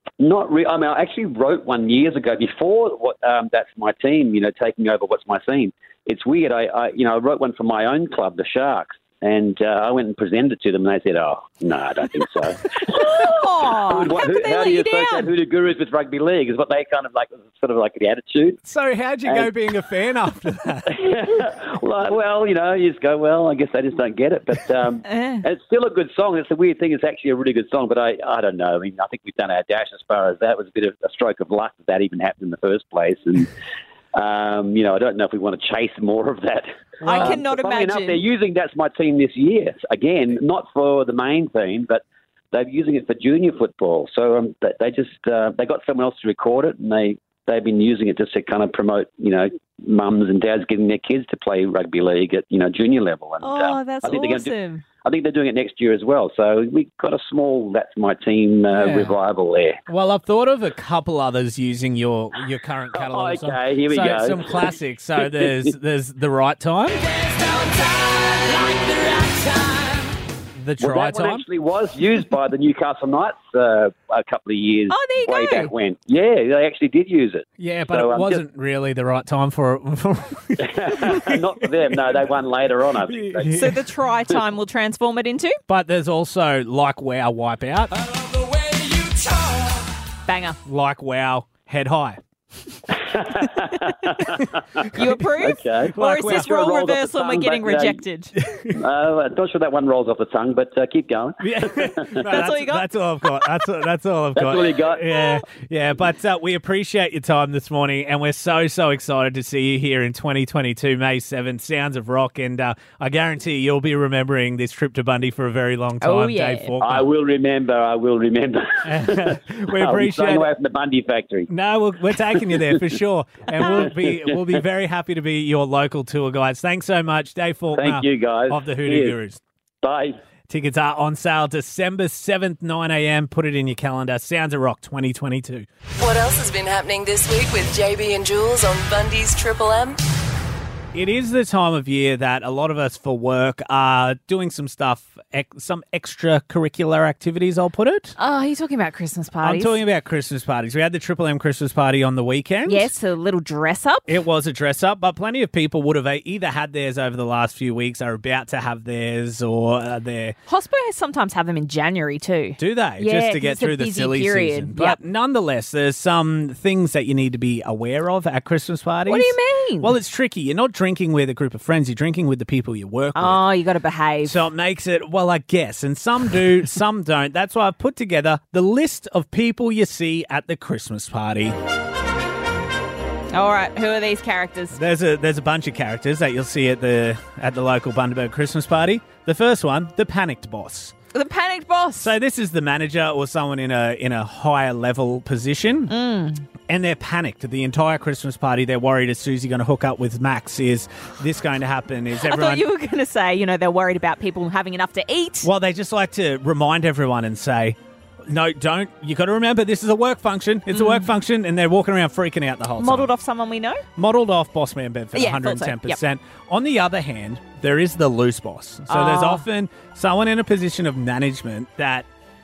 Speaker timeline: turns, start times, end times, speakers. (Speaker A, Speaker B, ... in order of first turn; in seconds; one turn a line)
Speaker A: 0.2-13.3
Speaker B: 12.9-15.3
Speaker A: 13.9-18.6
Speaker C: 18.6-21.0
Speaker A: 19.2-19.5
Speaker A: 20.9-33.5
Speaker B: 25.1-25.4
Speaker A: 34.1-59.8
Speaker C: 37.0-37.4
Speaker B: 37.0-38.2
Speaker B: 53.4-54.8
Speaker C: 58.7-59.1
Speaker C: 59.9-67.0
Speaker A: 62.9-65.5
Speaker C: 70.5-71.4
Speaker A: 70.8-78.4
Speaker B: 74.9-75.7
Speaker C: 77.6-81.4
Speaker A: 80.6-83.7
Speaker C: 83.1-83.8
Speaker B: 83.5-85.6
Speaker C: 85.7-88.2
Speaker C: 88.9-89.3
Speaker B: 90.2-90.6
Speaker C: 90.6-92.2
Speaker A: 92.9-98.0
Speaker B: 94.9-98.3
Speaker C: 95.9-96.5
Speaker A: 98.7-102.4
Speaker C: 101.4-117.1
Speaker B: 102.2-102.9
Speaker A: 104.3-105.1
Speaker B: 116.0-116.7
Speaker A: 116.8-121.5
Speaker C: 118.8-120.5
Speaker C: 121.5-129.4
Speaker A: 123.6-124.2
Speaker A: 127.8-129.2
Speaker A: 129.8-130.2
Speaker C: 130.5-135.7
Speaker D: 136.0-140.0
Speaker C: 140.9-148.1
Speaker B: 148.2-149.8
Speaker C: 149.4-152.9
Speaker B: 152.7-154.2
Speaker C: 154.1-160.3
Speaker B: 160.5-165.0
Speaker C: 162.6-173.4
Speaker B: 169.1-169.9
Speaker B: 173.1-174.4
Speaker C: 174.2-181.6
Speaker B: 183.3-184.8
Speaker C: 184.7-190.9
Speaker B: 191.1-192.1
Speaker C: 192.0-195.9
Speaker B: 195.9-196.4
Speaker C: 196.7-202.6
Speaker B: 202.2-205.5
Speaker C: 205.4-207.8
Speaker C: 208.3-213.1
Speaker B: 210.7-211.1
Speaker B: 212.8-213.8
Speaker C: 213.9-222.1
Speaker B: 215.1-216.0
Speaker B: 218.9-219.4